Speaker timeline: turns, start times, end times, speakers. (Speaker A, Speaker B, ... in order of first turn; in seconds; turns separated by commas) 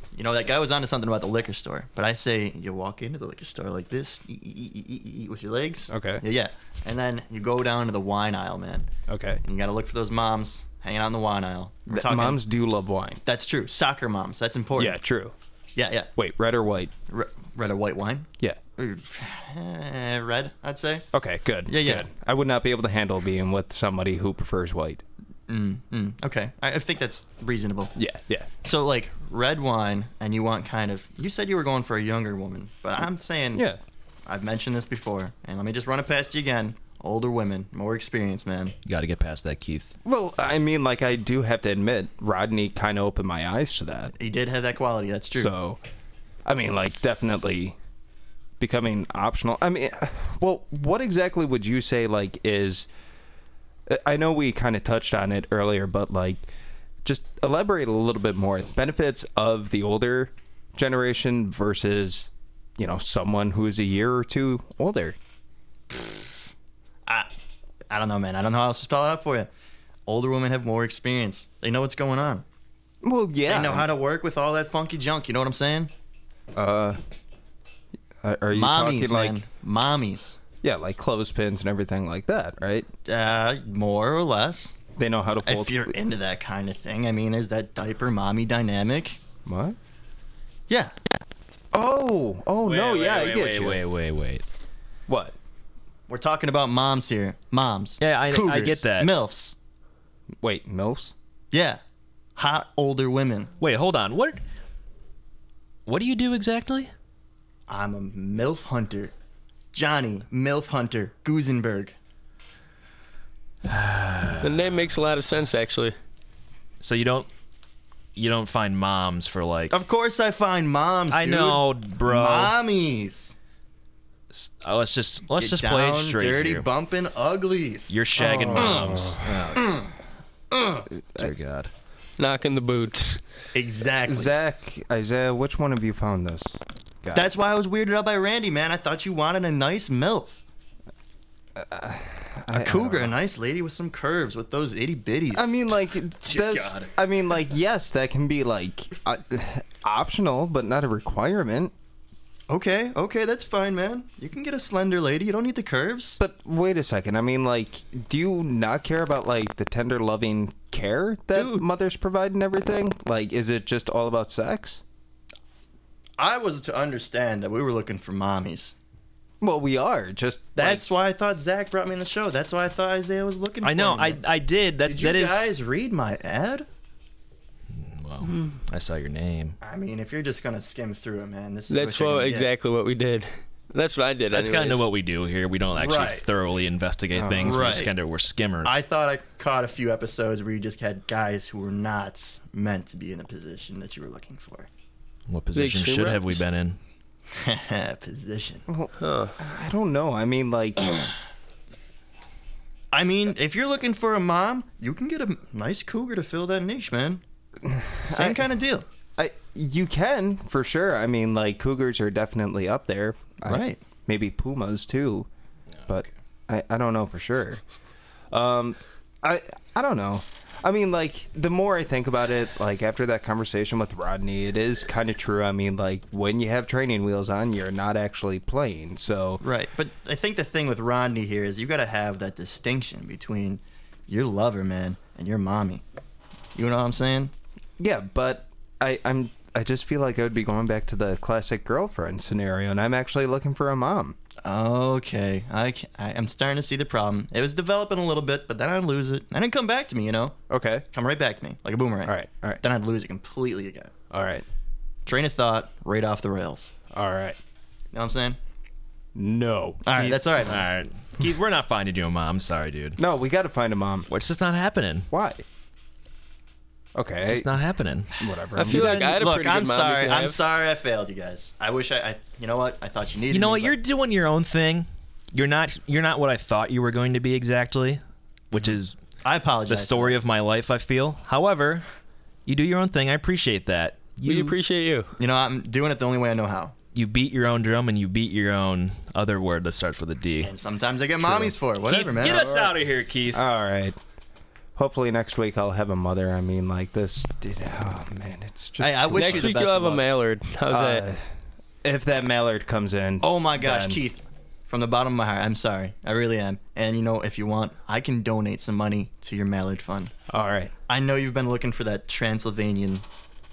Speaker A: 0.1-8.9, Speaker B: 5.9-6.2, Speaker B: 9.1-9.4, Speaker A: 9.4-12.4, Speaker B: 11.9-13.2, Speaker A: 13.2-15.0, Speaker B: 14.7-15.3, Speaker A: 15.7-16.1, Speaker B: 16.2-16.9, Speaker A: 17.1-21.1, Speaker B: 21.1-25.0, Speaker A: 21.7-22.1, Speaker A: 25.5-28.0, Speaker B: 27.9-28.5, Speaker A: 28.6-33.6, Speaker B: 33.5-33.8, Speaker A: 34.3-38.7, Speaker C: 38.9-39.9, Speaker B: 40.0-44.1, Speaker A: 44.2-45.5, Speaker B: 45.3-45.8, Speaker B: 46.4-47.8, Speaker B: 48.6-52.9, Speaker B: 53.9-56.5, Speaker B: 57.0-65.2, Speaker A: 67.0-67.3, Speaker A: 67.9-69.5, Speaker A: 70.0-72.4, Speaker B: 73.0-73.9, Speaker A: 73.5-75.9, Speaker B: 76.5-77.0, Speaker B: 78.2-79.4, Speaker A: 78.5-80.4, Speaker B: 80.6-82.9, Speaker A: 83.0-84.8, Speaker B: 85.0-85.9, Speaker A: 85.4-89.2, Speaker B: 89.4-89.8, Speaker A: 90.7-90.9, Speaker B: 91.7-93.8, Speaker C: 92.6-94.4, Speaker B: 95.1-95.3, Speaker A: 96.1-99.5, Speaker C: 98.0-99.1, Speaker B: 100.4-101.1, Speaker A: 101.5-101.8, Speaker A: 102.3-103.5, Speaker C: 103.6-104.4, Speaker C: 105.9-106.9, Speaker A: 107.7-109.1, Speaker A: 109.7-112.0, Speaker C: 113.7-114.4, Speaker D: 114.4-115.9, Speaker C: 116.8-117.3, Speaker C: 118.2-119.7, Speaker A: 119.7-123.3, Speaker C: 121.1-122.5, Speaker C: 124.3-126.7, Speaker A: 125.3-128.8, Speaker C: 127.9-129.8, Speaker B: 128.2-129.4, Speaker A: 130.5-130.8, Speaker C: 131.2-131.7, Speaker D: 132.2-133.2, Speaker A: 133.5-134.3, Speaker B: 134.1-137.3, Speaker A: 137.1-140.4, Speaker B: 141.6-143.2, Speaker A: 142.5-145.6, Speaker B: 145.3-151.7, Speaker A: 146.3-146.9, Speaker A: 152.5-156.2, Speaker B: 156.2-164.8, Speaker A: 161.3-161.6, Speaker A: 166.2-168.7, Speaker B: 169.4-170.8, Speaker A: 170.6-174.2, Speaker C: 173.6-175.5, Speaker A: 174.8-176.7, Speaker C: 177.7-179.6, Speaker A: 179.6-182.5, Speaker D: 181.7-184.8, Speaker C: 184.3-188.8, Speaker A: 185.7-186.2, Speaker B: 187.1-187.8, Speaker A: 187.4-187.9, Speaker A: 188.6-194.7, Speaker C: 195.3-196.8, Speaker D: 195.5-196.4, Speaker A: 197.3-198.6, Speaker B: 198.7-200.9, Speaker D: 199.0-199.3, Speaker A: 202.9-207.2, Speaker B: 207.6-208.5, Speaker A: 208.0-208.8, Speaker B: 209.2-215.3, Speaker A: 213.4-213.8, Speaker B: 215.9-217.6, Speaker B: 218.3-229.4, Speaker A: 229.4-235.8, Speaker A: 236.5-237.3, Speaker B: 237.8-244.2, Speaker A: 244.4-250.4, Speaker B: 250.5-250.8, Speaker A: 250.9-253.9, Speaker B: 252.0-252.6, Speaker B: 254.1-254.4, Speaker A: 255.1-256.7, Speaker B: 256.9-257.4, Speaker A: 257.9-258.4, Speaker B: 259.1-260.2, Speaker A: 259.9-260.6, Speaker C: 260.4-263.0, Speaker B: 263.0-264.1, Speaker C: 264.1-265.1, Speaker B: 265.1-265.4, Speaker B: 266.9-267.5, Speaker C: 267.2-269.2, Speaker B: 268.2-268.9, Speaker D: 268.6-270.4, Speaker A: 269.1-273.7, Speaker C: 273.3-278.9, Speaker A: 279.2-280.1, Speaker C: 279.7-281.9, Speaker C: 282.4-284.6, Speaker D: 284.2-285.1, Speaker A: 285.2-286.7, Speaker C: 286.9-290.5, Speaker A: 290.4-292.6, Speaker B: 291.2-291.5, Speaker C: 291.8-293.4, Speaker B: 293.3-294.0, Speaker B: 294.8-299.6, Speaker A: 298.8-300.1, Speaker D: 299.1-301.1, Speaker B: 300.7-301.3, Speaker B: 301.8-304.0, Speaker A: 303.2-310.1, Speaker B: 310.3-310.7, Speaker A: 310.9-313.0